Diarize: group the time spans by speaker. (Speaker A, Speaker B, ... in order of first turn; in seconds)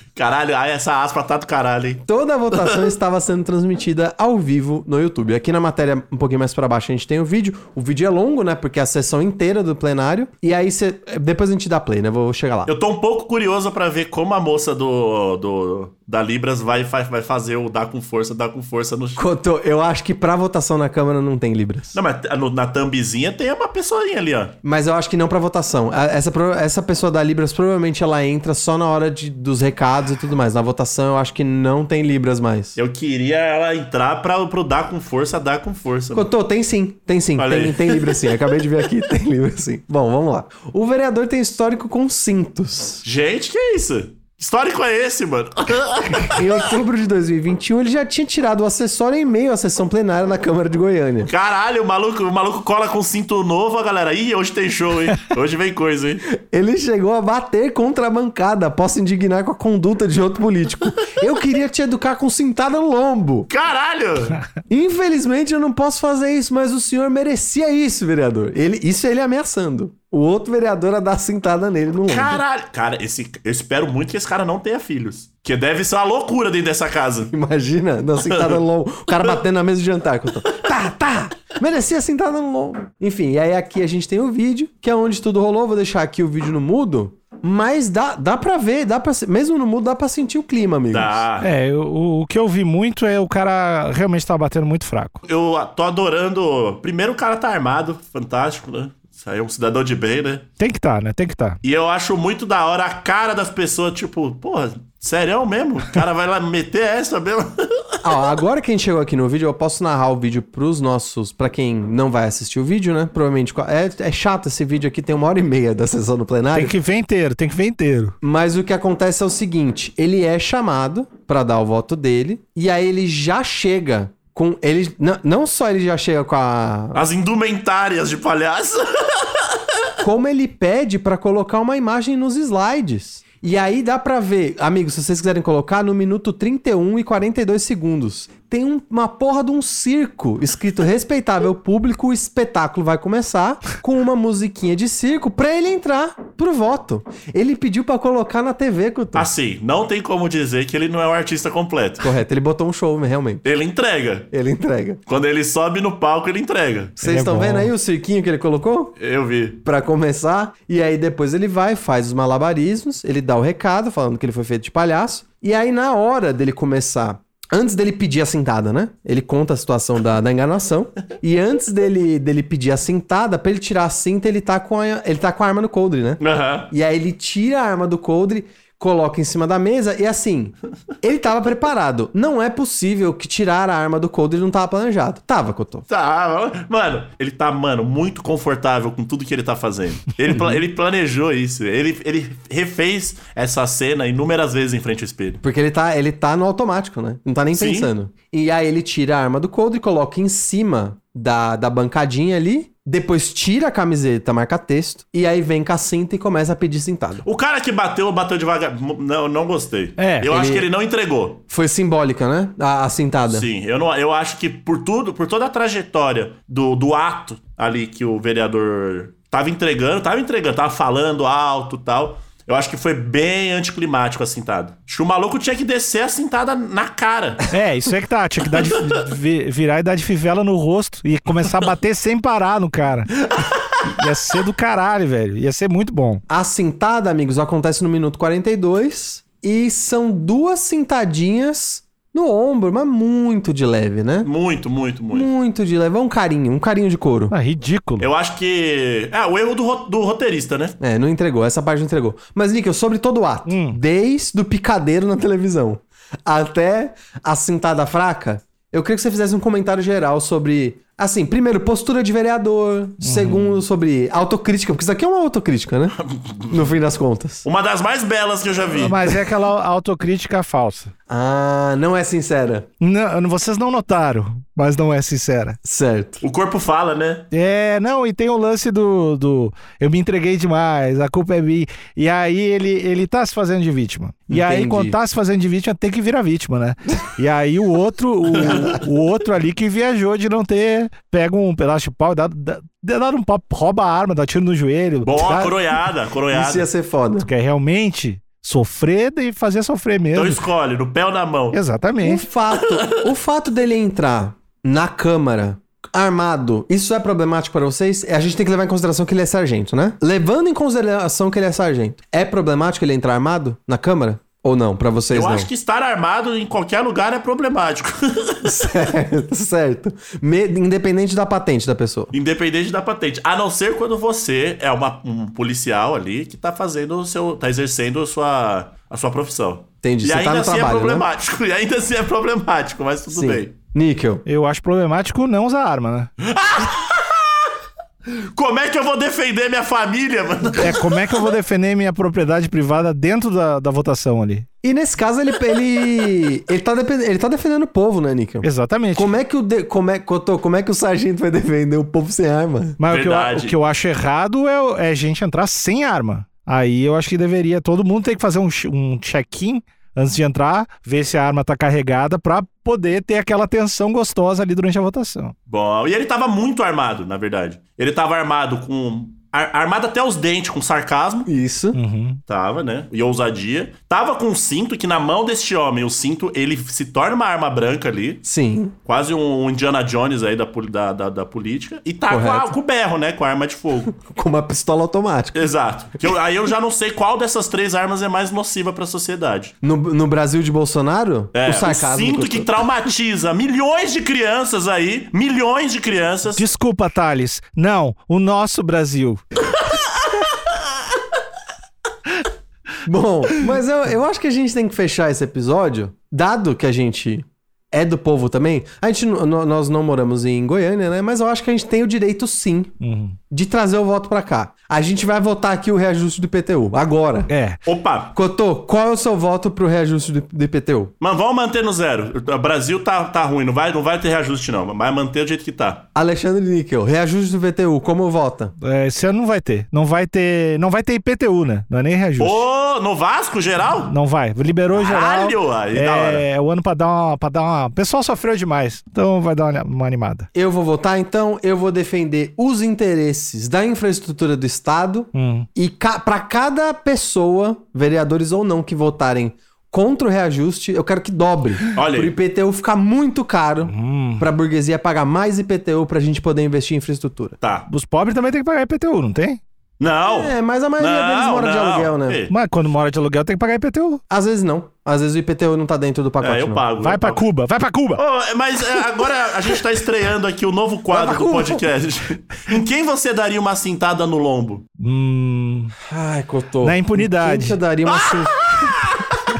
Speaker A: 0.1-2.9, 12.7-19.2, 21.9-24.5, 32.7-36.3, 37.4-38.4, 43.0-46.5, 51.2-56.2, 63.5-64.4, 72.0-77.3, 78.2-78.6, 90.9-91.5, 95.2-100.5, 101.6-107.8, 126.9-129.5, 149.1-152.1, 153.4-154.3, 155.1-156.9, 159.0-159.6, 176.2-176.7, 185.9-195.4, 197.5-197.9, 207.2-211.4, 213.3-227.4, 244.2-245.3, 248.0-250.7, 266.0-266.6, 267.4-269.0, 276.2-277.2, 295.0-296.7, 300.1-301.6, 302.5-303.1, 315.1-318.5, 322.1-333.5, 336.2-337.2, 338.1-340.9, 352.9-353.6, 365.5-371.3, 372.3-378.2, 378.8-383.9, 385.3-389.5, 391.3-396.4, 417.6-418.1, 421.0-425.8, 432.2-433.9, 434.7-436.2, 451.7-452.1, 457.4-457.7, 459.8-462.3, 466.2-467.2, 467.9-474.6, 477.9-479.0
Speaker B: 2.0-12.7, 19.1-21.9, 24.6-32.8, 36.1-43.0, 46.1-51.3, 56.3-63.5, 64.7-72.4, 77.3-91.2, 108.0-116.7, 118.2-127.0, 130.0-149.3, 152.0-153.4, 154.3-155.0, 157.0-158.9, 159.6-185.9, 195.4-207.2, 210.2-210.7, 211.5-213.4, 236.3-244.3, 245.1-247.3, 250.8-265.9, 266.5-267.4, 271.1-272.6, 275.6-276.2, 284.3-285.0, 296.3-297.3, 302.0-315.5, 318.4-322.1, 329.8-331.1, 333.1-334.2, 344.6-352.8, 371.2-371.8, 378.2-378.7, 382.1-382.5, 383.9-385.5, 389.6-392.5, 402.8-412.7, 413.3-417.3, 418.1-420.9, 425.9-428.5, 440.3-457.4, 460.1-462.2, 464.1-466.6, 470.9-471.6, 475.9-478.7
Speaker C: 91.4-95.2, 100.6-101.6, 116.5-118.1, 157.0-157.7, 210.0-210.3, 227.5-233.2, 233.8-236.2, 247.3-248.1, 253.4-253.8, 263.0-263.6, 268.7-270.9, 272.8-275.6, 277.3-295.6, 297.2-300.4, 301.5-302.3, 334.2-336.1, 340.5-344.4, 348.4-349.1, 352.8-365.3, 371.7-372.2, 396.3-399.2, 412.8-413.2, 417.3-417.6, 428.6-432.4, 433.8-440.3, 445.1-445.5, 453.6-454.3, 457.7-459.4, 462.3-464.0, 466.8-468.0, 474.8-475.7, 476.6-477.6